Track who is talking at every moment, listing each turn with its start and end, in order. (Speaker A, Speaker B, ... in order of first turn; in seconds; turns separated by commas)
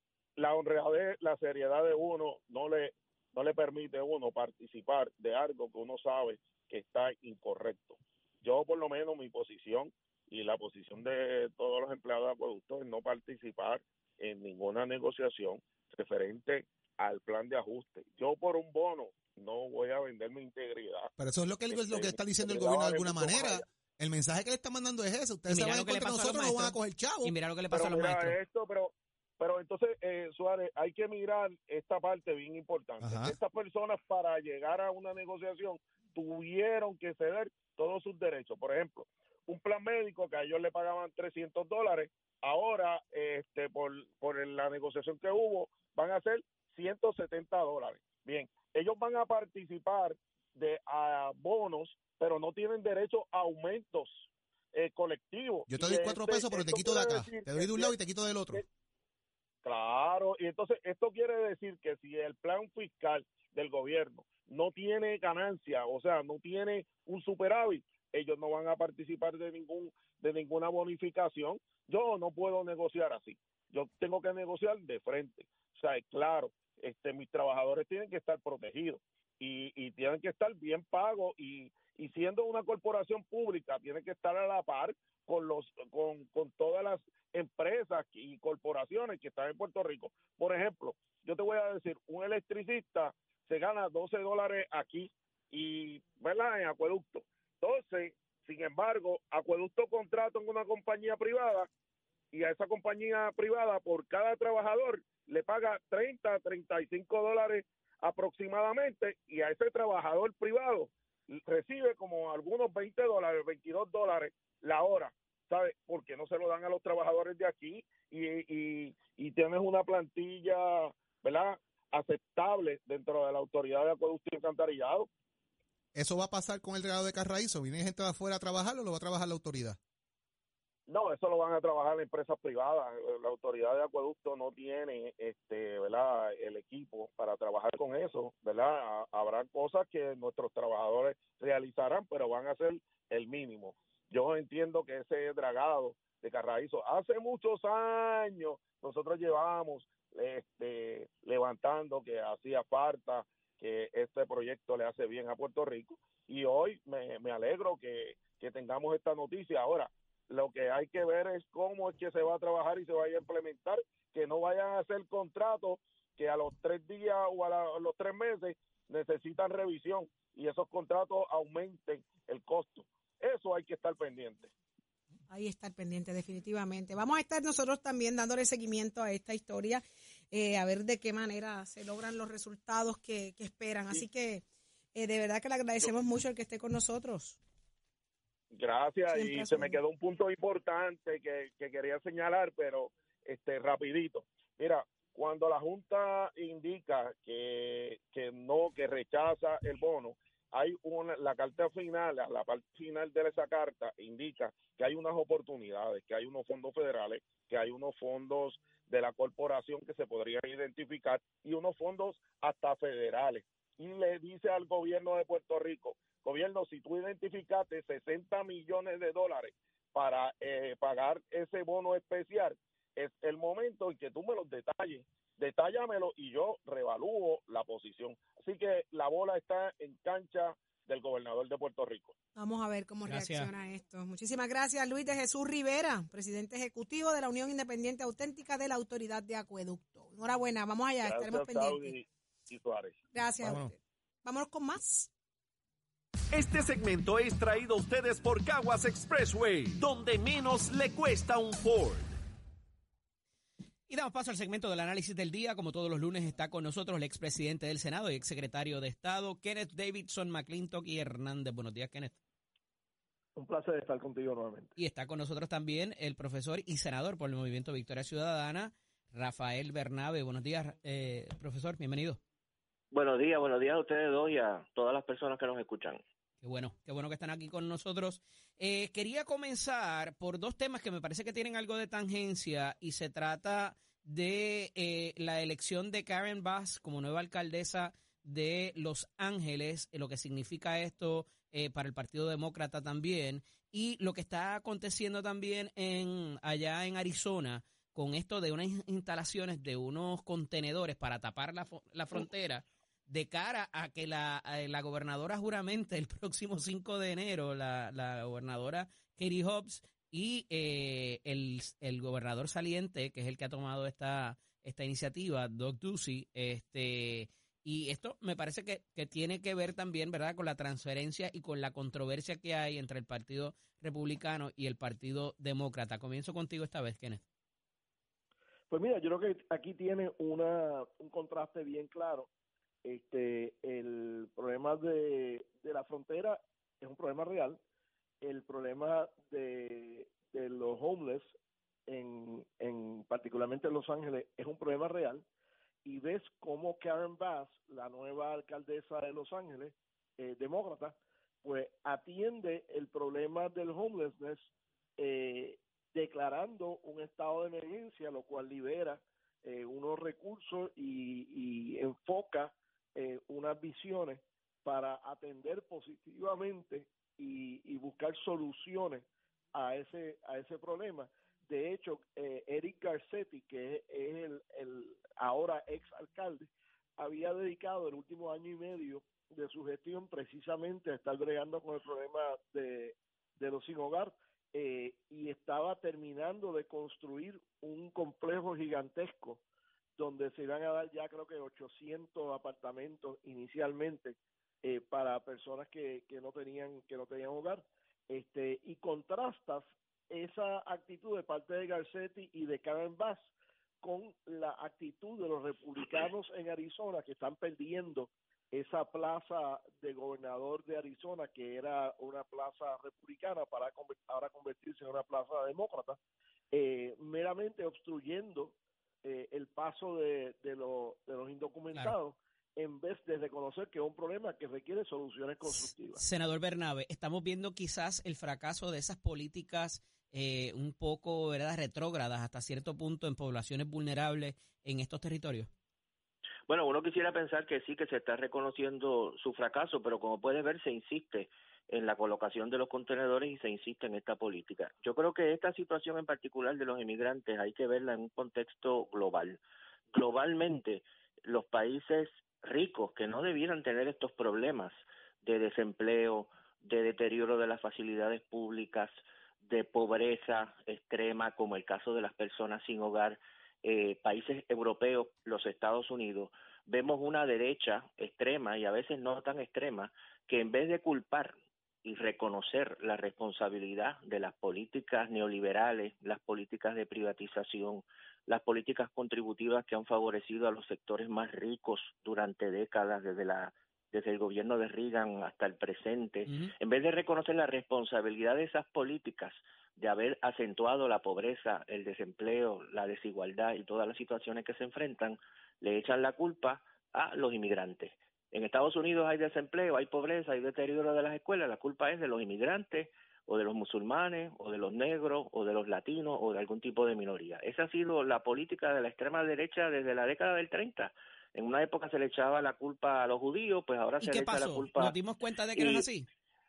Speaker A: 0.4-21.1, Speaker B: 21.2-27.3, Speaker A: 21.7-23.6, Speaker C: 25.5-28.4, Speaker A: 27.7-57.9, Speaker B: 33.0-33.4, Speaker B: 55.7-58.6, Speaker A: 59.6-101.7, Speaker A: 102.3-125.1, Speaker B: 126.0-129.8, Speaker A: 130.9-174.5, Speaker D: 175.3-187.4, Speaker A: 188.5-232.1, Speaker D: 189.1-189.8, Speaker D: 232.3-241.9, Speaker C: 233.1-233.5, Speaker A: 241.0-243.0, Speaker D: 243.1-245.1, Speaker B: 243.4-243.7, Speaker E: 246.3-252.2, Speaker C: 253.9-262.2, Speaker F: 263.4-264.7, Speaker C: 264.8-272.2, Speaker G: 272.9-276.0, Speaker C: 276.4-327.2, Speaker F: 328.7-332.3, Speaker F: 332.8-337.6, Speaker F: 338.2-341.3, Speaker F: 341.9-345.3, Speaker F: 345.9-354.4, Speaker F: 355.0-389.4, Speaker F: 390.0-403.2, Speaker F: 403.8-416.0, Speaker F: 416.5-426.0, Speaker C: 425.5-435.5, Speaker G: 436.5-449.4, Speaker G: 449.9-515.0, Speaker C: 486.3-486.5, Speaker C: 514.0-516.1, Speaker G: 515.6-515.9